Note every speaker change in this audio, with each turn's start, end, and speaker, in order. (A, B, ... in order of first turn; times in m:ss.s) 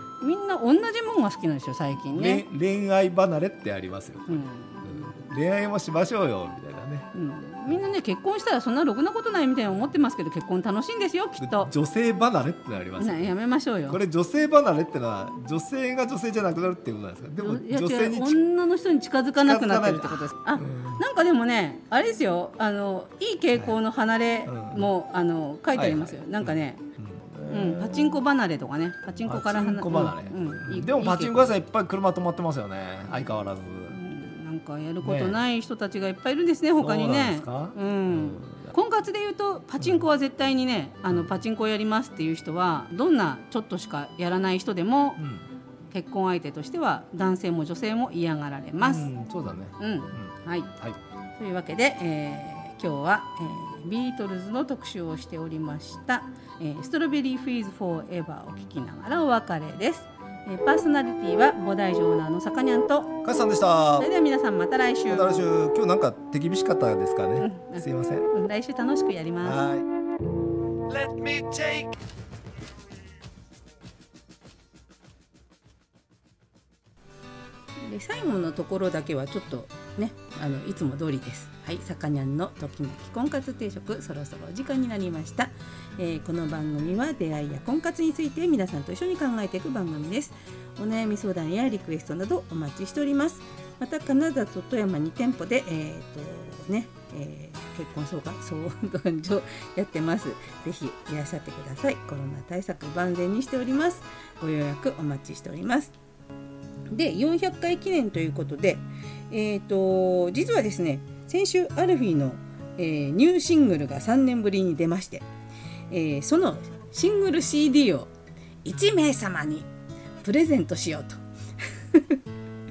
0:00.2-0:02.5 A
0:02.1-0:07.1 B
0:04.3-0:05.2 A
0:07.1-0:11.7 A
0:11.4-0:13.3 B
0:13.0-0:14.0 A
0:13.9-0:18.4 B
0:17.4-0:26.8 A
0:19.4-0:21.0 B
0:23.5-0:23.8 B
0:24.5-0:24.9 B
0:25.7-0:28.2 B
0:27.5-0:31.6 A
0:29.3-0:34.0 B
0:33.9-0:45.2 A
0:35.0-0:35.4 B
0:36.8-0:38.7 B
0:39.8-0:40.1 B
0:45.2-0:45.4 B
0:45.9-0:49.1 A
0:48.8-0:51.0 B
0:49.8-0:50.7 A
0:51.4-1:03.2 A
1:03.2-1:04.1 B
1:04.0-1:05.5 A
1:05.1-1:08.3 B
1:07.4-1:09.7 A
1:09.4-1:09.9 B
1:10.9-1:11.9 B
1:17.8-1:45.9 C
1:46.9-1:55.3 C
1:55.9-1:58.1 C
1:58.6-1:59.7 C
2:00.2-2:01.2 C
2:01.8-2:02.2 C